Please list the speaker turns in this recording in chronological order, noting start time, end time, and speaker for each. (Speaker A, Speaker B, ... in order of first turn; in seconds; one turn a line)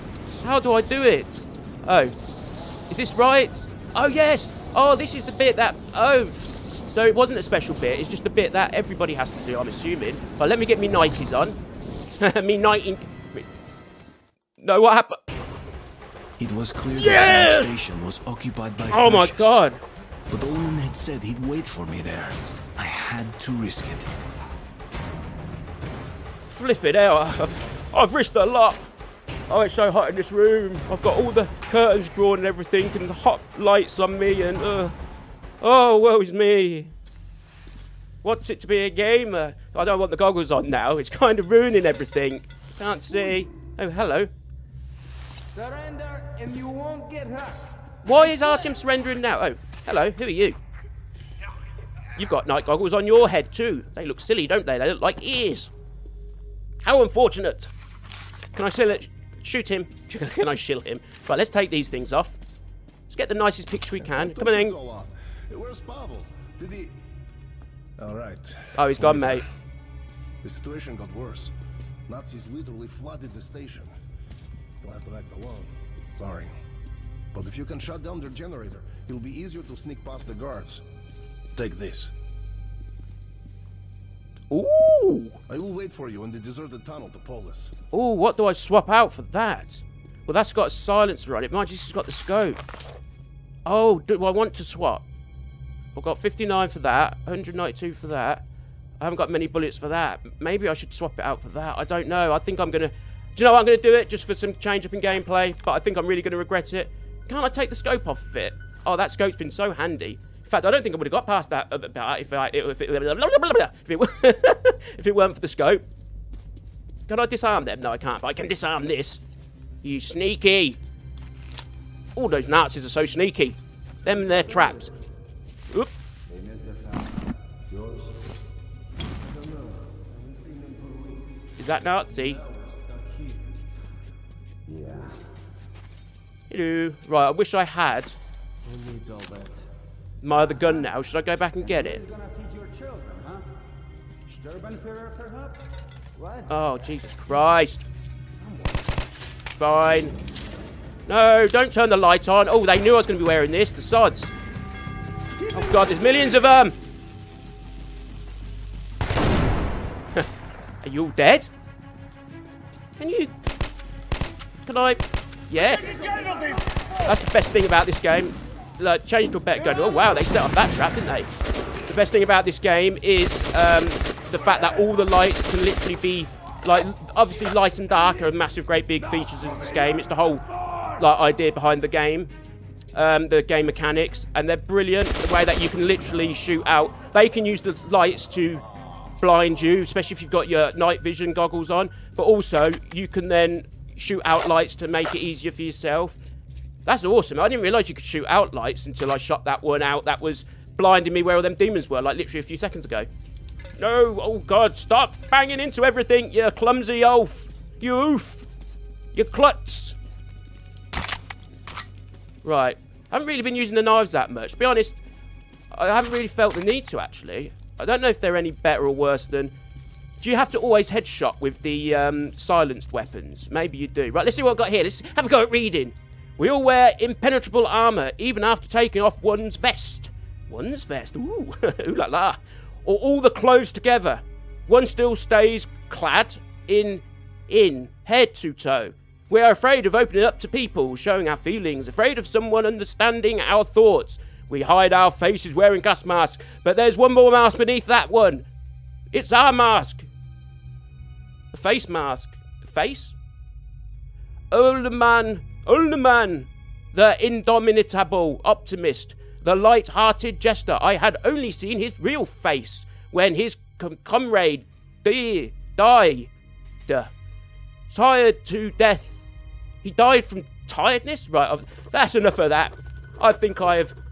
Speaker A: 0.4-2.1
Speaker A: 2.9-11.6
Speaker A: 12.2-13.4
Speaker A: 14.6-15.2
Speaker B: 16.4-19.6
Speaker A: 16.9-17.7
Speaker A: 18.9-19.8
Speaker B: 20.3-24.1
Speaker A: 26.4-28.9
Speaker A: 29.5-34.9
Speaker A: 35.6-36.9
Speaker A: 38.2-44.3
Speaker C: 45.5-47.7
Speaker A: 48.0-50.6
Speaker A: 52.2-55.7
Speaker A: 56.8-57.7
Speaker A: 58.5-62.4
Speaker A: 63.1-64.7
Speaker D: 64.3-66.9
Speaker D: 68.0-68.7
Speaker A: 68.7-69.5
Speaker B: 69.0-69.3
Speaker D: 70.4-71.5
Speaker D: 72.1-73.9
Speaker D: 74.8-76.5
Speaker D: 77.3-80.8
Speaker D: 81.5-82.1
Speaker A: 84.5-85.4
Speaker D: 85.5-87.7
Speaker A: 87.9-92.6
Speaker A: 93.6-95.0
Speaker A: 95.9-98.4
Speaker A: 99.0-115.8
Speaker A: 117.1-119.2
Speaker A: 119.8-120.8
Speaker A: 122.2-124.9
Speaker C: 126.3-127.1
Speaker C: 129.3-131.4
Speaker A: 131.6-132.4
Speaker C: 132.3-133.4
Speaker C: 134.7-135.1
Speaker A: 136.5-138.2
Speaker C: 138.6-139.7
Speaker A: 140.2-142.0
Speaker C: 141.7-143.4
Speaker C: 144.3-145.7
Speaker C: 146.2-146.5
Speaker A: 146.5-147.8
Speaker C: 148.3-148.8
Speaker A: 149.6-150.1
Speaker A: 151.1-154.3
Speaker C: 155.4-156.3
Speaker A: 155.5-156.8
Speaker A: 160.8-161.5
Speaker A: 163.0-163.3
Speaker A: 164.7-166.2
Speaker C: 165.6-167.1
Speaker A: 167.0-171.3
Speaker A: 171.9-180.4
Speaker A: 181.0-182.3
Speaker A: 182.9-188.6
Speaker A: 189.2-196.2
Speaker A: 196.8-203.1
Speaker A: 203.8-208.5
Speaker A: 209.1-210.0
Speaker A: 212.4-215.0
Speaker A: 215.7-219.5
Speaker A: 220.2-248.5
Speaker A: 249.1-250.1
Speaker A: 251.5-253.2
Speaker A: 254.5-266.3
Speaker A: 267.9-269.3
Speaker A: 269.8-273.9